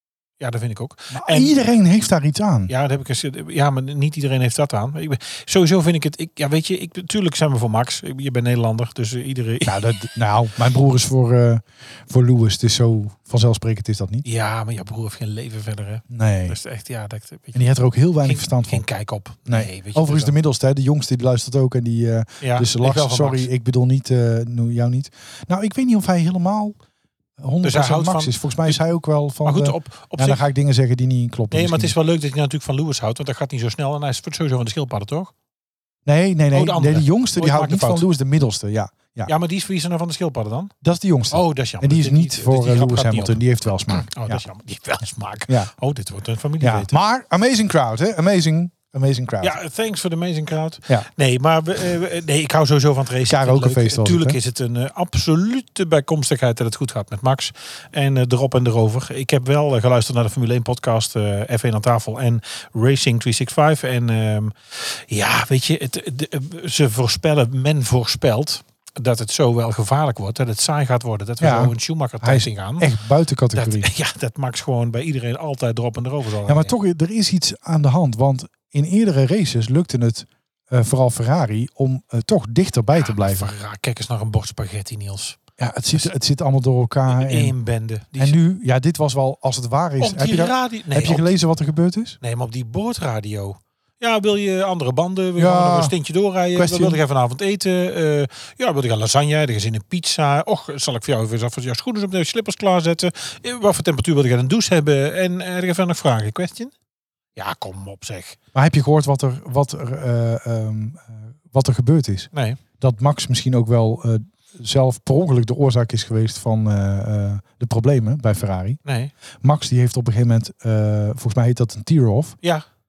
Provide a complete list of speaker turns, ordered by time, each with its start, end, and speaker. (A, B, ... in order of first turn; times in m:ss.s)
0:00.4-0:01.6 A
0:01.1-0:02.7 B
0:02.7-0:09.9 A
0:09.6-0:14.2 B
0:14.2-0:17.7 A
0:16.1-0:16.6 B
0:17.5-0:18.8 B
0:18.2-0:20.4 A
0:19.5-0:26.8 B
0:22.4-0:23.5 A
0:27.4-0:31.9 B
0:27.6-0:28.8 A
0:29.4-0:30.4 A
0:31.5-0:35.3 A
0:36.0-0:39.3 B
0:36.5-0:38.0 A
0:39.3-0:40.7 A
0:40.8-0:44.4 B
0:41.3-0:47.0 A
0:46.6-0:49.6 B
0:49.4-1:12.9 A
0:53.2-0:54.4 B
1:11.4-1:13.9 B
1:13.5-1:16.7 A
1:16.4-1:23.5 B
1:23.0-1:25.4 A
1:25.6-1:27.5 B
1:27.1-1:28.4 A
1:28.2-1:32.2 B
1:30.0-1:31.3 A
1:32.2-1:46.7 A
1:35.4-1:35.9 B
1:36.5-1:37.0 B
1:47.4-1:48.4 A
1:48.5-1:52.3 B
1:52.3-1:52.6 A
1:52.8-1:58.8 B
1:58.8-1:59.1 A
1:59.4-2:02.4 B